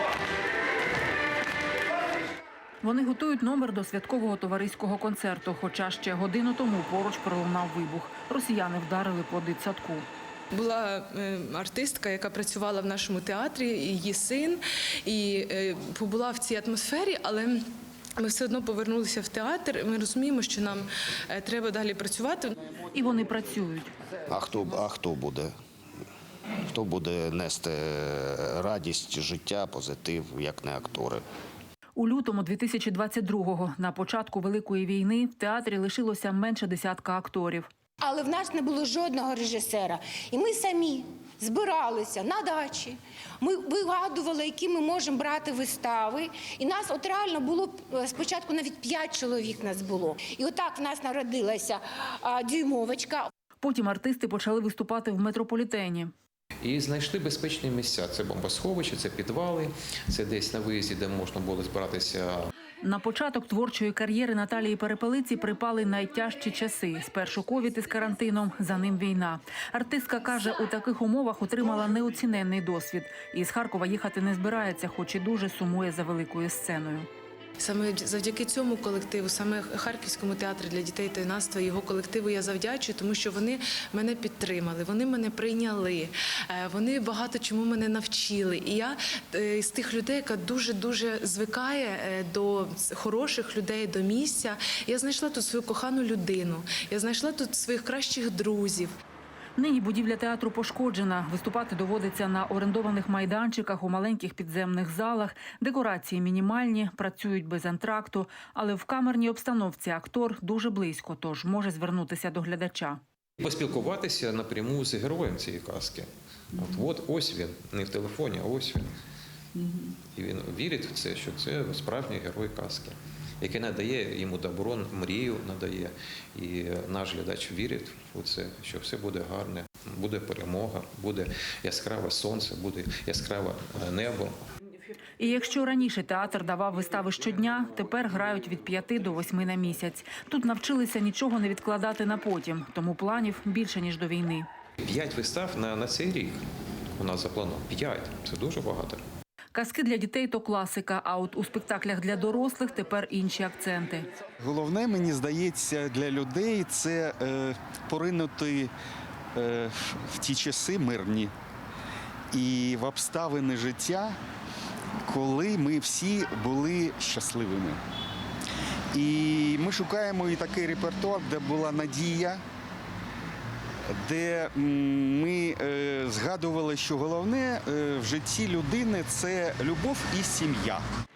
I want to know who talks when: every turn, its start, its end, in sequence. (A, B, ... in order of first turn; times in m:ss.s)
0:02.8-0:10.0 A
0:10.5-0:17.6 B
0:18.2-0:22.5 B
0:22.9-0:23.9 A
0:24.3-0:25.5 C
0:26.7-0:31.2 C
0:32.0-0:37.7 A
0:38.0-0:53.3 D
0:53.6-0:56.1 A
0:56.6-1:02.5 E
1:02.8-1:17.1 A
1:17.6-1:38.9 B
1:39.6-1:53.0 A
1:53.4-1:58.9 E
2:00.2-2:14.4 E
2:15.2-2:24.5 A
2:24.8-2:26.4 E
2:27.0-2:29.0 E
2:29.5-2:34.1 A
2:34.4-2:38.7 F
2:39.4-2:41.3 F
2:42.3-2:44.2 F
2:45.0-2:47.8 F
2:48.9-2:52.4 F
2:54.0-3:00.8 F